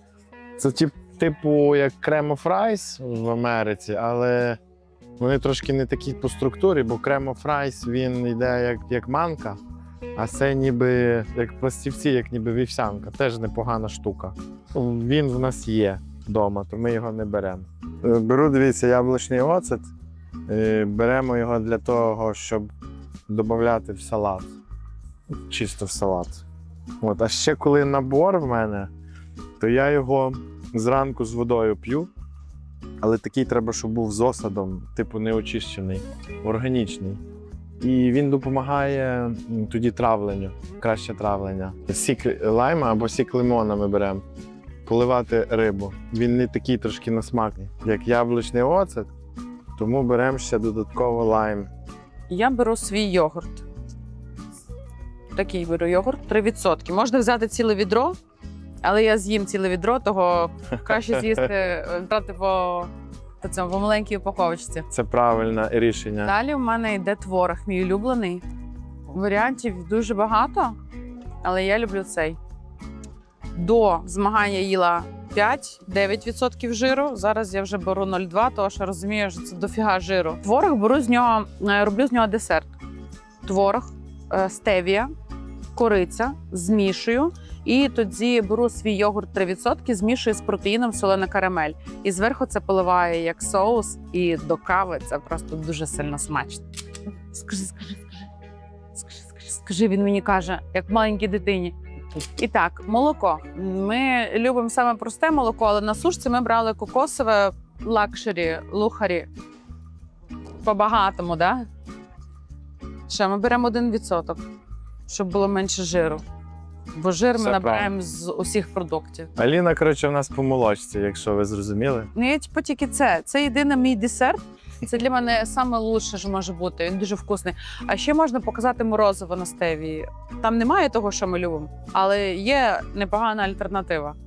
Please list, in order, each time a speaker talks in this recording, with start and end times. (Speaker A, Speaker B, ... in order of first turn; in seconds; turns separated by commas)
Speaker A: 0.6-4.6, Speaker A: 5.2-9.6, Speaker A: 10.2-19.9, Speaker A: 20.5-22.7, Speaker A: 23.3-24.5, Speaker A: 25.3-26.4, Speaker A: 27.0-28.9, Speaker A: 29.6-32.1, Speaker A: 33.0-37.2, Speaker A: 37.8-44.2, Speaker A: 44.9-49.1, Speaker A: 49.8-51.7, Speaker B: 52.3-53.6, Speaker B: 55.4-58.2, Speaker B: 58.8-64.9, Speaker A: 60.9-61.4, Speaker A: 64.9-66.3, Speaker B: 66.2-68.4, Speaker B: 69.1-70.8, Speaker B: 71.4-72.4, Speaker B: 73.5-82.7, Speaker B: 83.4-85.1, Speaker B: 85.8-96.7, Speaker B: 97.3-98.2, Speaker B: 99.0-101.8, Speaker B: 102.4-109.3, Speaker B: 110.6-111.7, Speaker B: 113.1-114.4, Speaker B: 115.1-116.2, Speaker B: 116.9-119.3, Speaker A: 117.4-117.9, Speaker A: 119.4-122.1, Speaker B: 122.2-134.2